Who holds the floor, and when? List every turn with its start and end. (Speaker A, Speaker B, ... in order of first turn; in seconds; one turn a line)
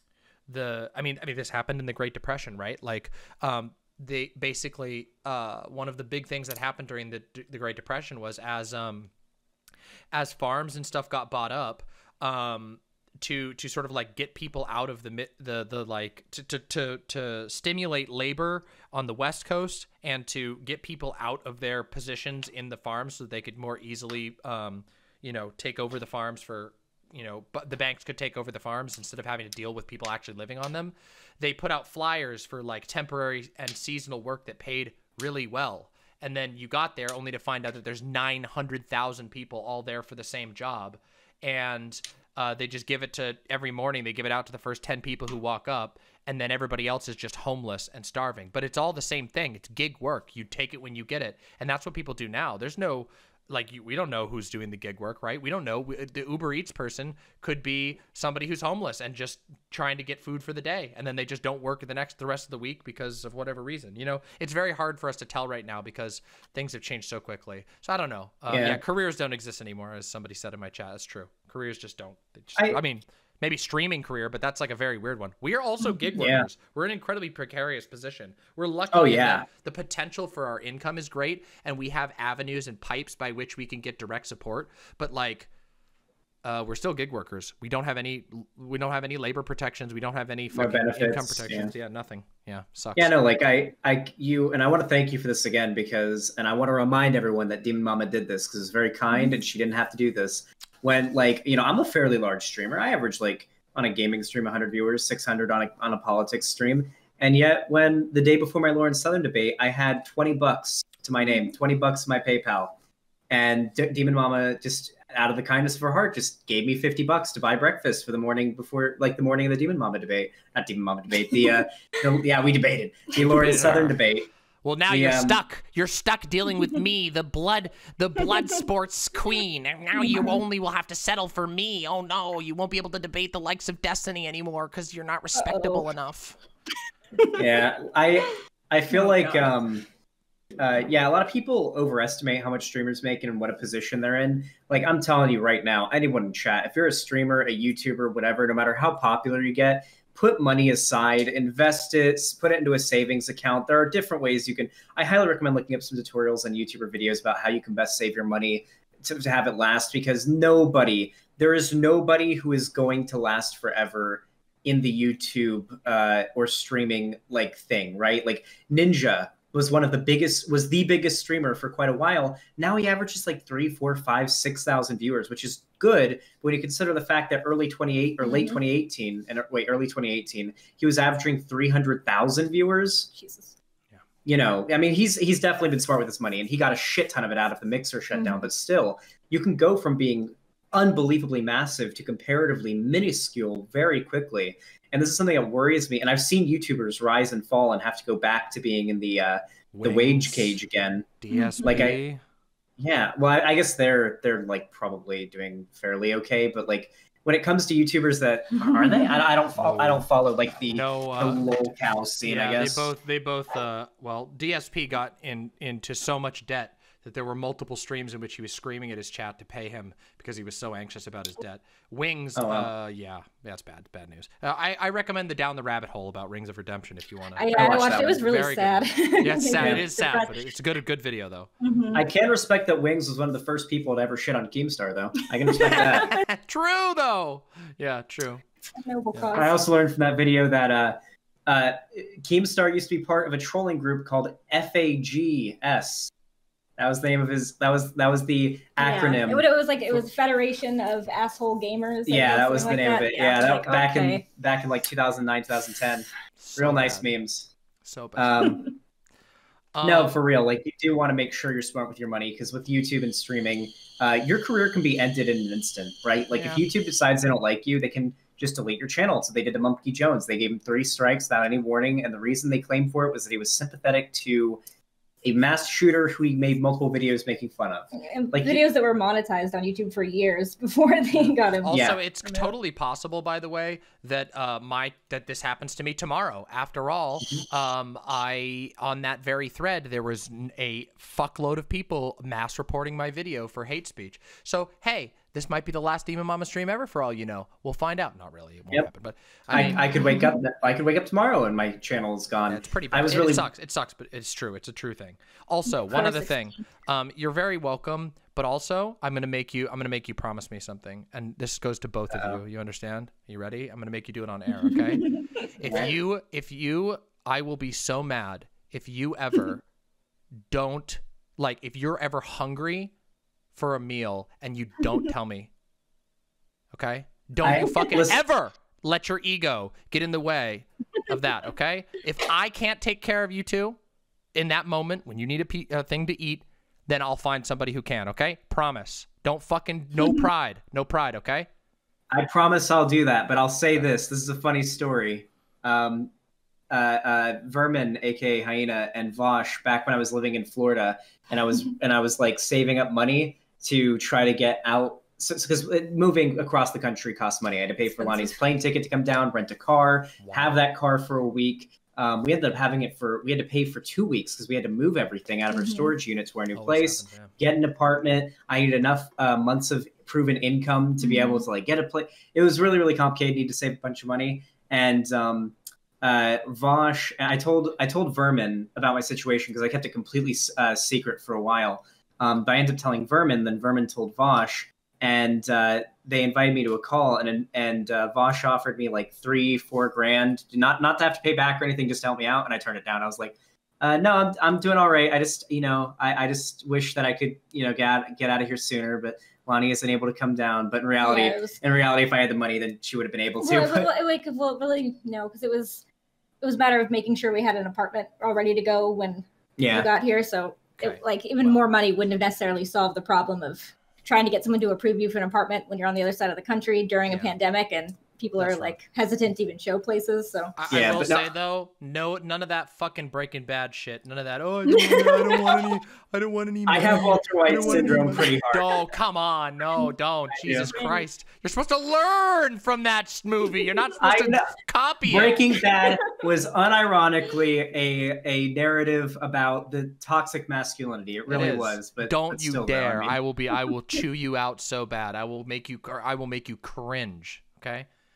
Speaker A: 0.5-9.1
Speaker A: 10.1-85.5
Speaker B: 68.5-68.8
Speaker B: 76.2-76.5
Speaker B: 78.9-79.5
Speaker A: 86.4-93.1
Speaker B: 90.5-91.7
Speaker B: 93.0-112.7
Speaker B: 113.3-124.3
Speaker A: 123.2-124.0
Speaker A: 124.6-136.4
Speaker B: 124.9-125.4
Speaker C: 130.0-130.3
Speaker C: 135.3-135.9
Speaker B: 137.3-139.8
Speaker A: 138.9-139.5
Speaker B: 140.6-183.1
Speaker C: 178.2-178.6
Speaker C: 183.1-183.5
Speaker B: 184.2-201.1
Speaker C: 188.2-188.4
Speaker A: 199.7-200.6
Speaker A: 201.2-202.2
Speaker C: 201.3-201.6
Speaker B: 201.6-202.0
Speaker B: 202.8-212.9
Speaker C: 208.6-209.2
Speaker A: 209.6-210.1
Speaker A: 210.7-211.6
Speaker A: 212.2-231.5
Speaker B: 222.3-222.7
Speaker C: 227.3-230.4
Speaker B: 227.5-228.2
Speaker C: 231.6-232.0
Speaker B: 231.9-236.1
Speaker C: 235.4-236.2
Speaker A: 235.6-238.4
Speaker C: 238.7-239.6
Speaker B: 239.3-246.1
Speaker B: 246.8-250.0
Speaker C: 248.8-254.2
Speaker B: 252.1-257.5
Speaker A: 252.2-252.8
Speaker A: 256.4-257.1
Speaker A: 257.8-258.6
Speaker B: 258.1-258.6
Speaker C: 258.4-258.7
Speaker A: 259.7-260.1
Speaker B: 259.8-274.6
Speaker A: 266.3-266.6
Speaker B: 275.2-278.6
Speaker C: 277.9-282.5
Speaker A: 281.6-299.8
Speaker B: 281.7-282.0
Speaker B: 299.5-303.5
Speaker C: 299.6-300.4
Speaker A: 302.5-319.6
Speaker C: 305.9-306.6
Speaker B: 312.1-312.4
Speaker C: 314.5-315.4
Speaker B: 315.6-315.9
Speaker A: 320.5-322.9
Speaker A: 323.5-325.5
Speaker A: 326.7-333.8
Speaker B: 327.4-328.2
Speaker A: 334.3-341.5
Speaker B: 342.1-346.1
Speaker B: 346.7-403.9
Speaker C: 358.0-358.4
Speaker A: 360.2-360.6
Speaker C: 365.5-365.9
Speaker A: 366.5-367.3
Speaker C: 371.0-371.4
Speaker C: 401.0-401.6
Speaker C: 403.4-405.8
Speaker C: 406.4-420.5
Speaker B: 409.6-409.9
Speaker A: 410.8-411.6
Speaker A: 417.1-417.3
Speaker A: 418.4-418.8
Speaker A: 420.6-435.4
Speaker B: 420.7-421.3
Speaker C: 424.7-425.6
Speaker B: 426.7-428.7
Speaker C: 427.7-428.0
Speaker B: 430.4-430.8
Speaker B: 434.0-434.5
Speaker B: 435.1-443.2
Speaker C: 435.5-436.0
Speaker A: 441.3-447.9